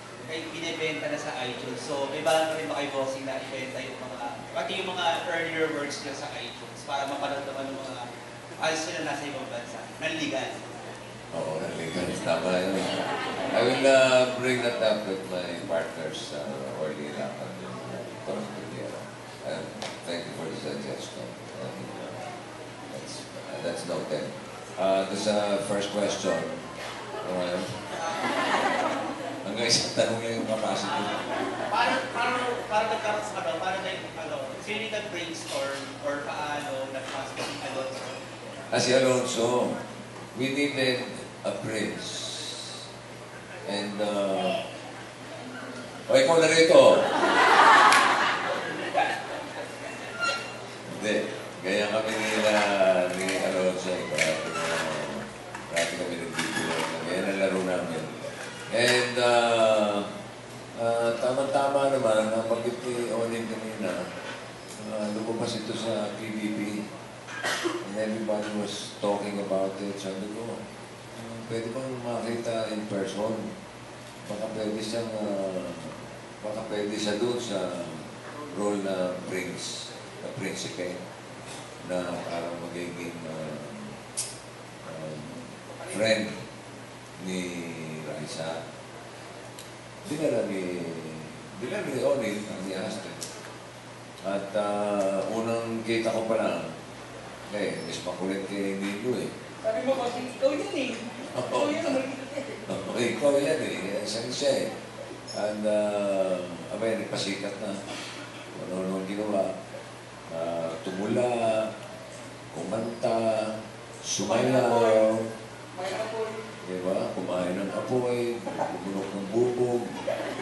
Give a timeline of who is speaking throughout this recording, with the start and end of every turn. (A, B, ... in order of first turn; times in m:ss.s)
0:00.3-0:08.0 A
0:08.6-0:10.5 A
0:11.3-0:12.9 B
0:13.5-0:22.2 B
0:22.9-0:26.6 B
0:27.2-0:27.8 B
0:29.4-0:31.1 B
0:31.7-0:38.2 A
0:38.7-0:39.8 B
0:40.3-0:42.6 B
0:43.6-0:44.6 B
0:46.1-0:47.1 B
0:50.9-0:58.1 B
0:58.7-1:00.1 B
1:00.8-1:04.0 B
1:04.8-1:06.8 B
1:07.8-1:10.6 B
1:11.1-1:13.5 B
1:14.2-1:21.0 B
1:21.8-1:23.9 B
1:24.8-1:26.4 B
1:27.2-1:28.6 B
1:30.0-1:33.2 B
1:34.2-1:36.6 B
1:37.5-1:39.3 B
1:39.6-1:42.6 C
1:41.3-1:42.0 B
1:42.7-1:44.7 B
1:45.3-1:47.8 B
1:48.5-1:49.5 B
1:50.3-1:51.7 B
1:52.5-1:53.4 B
1:54.0-1:55.2 B
1:54.2-1:55.0 C
1:55.7-1:56.4 C
1:56.6-1:59.8 B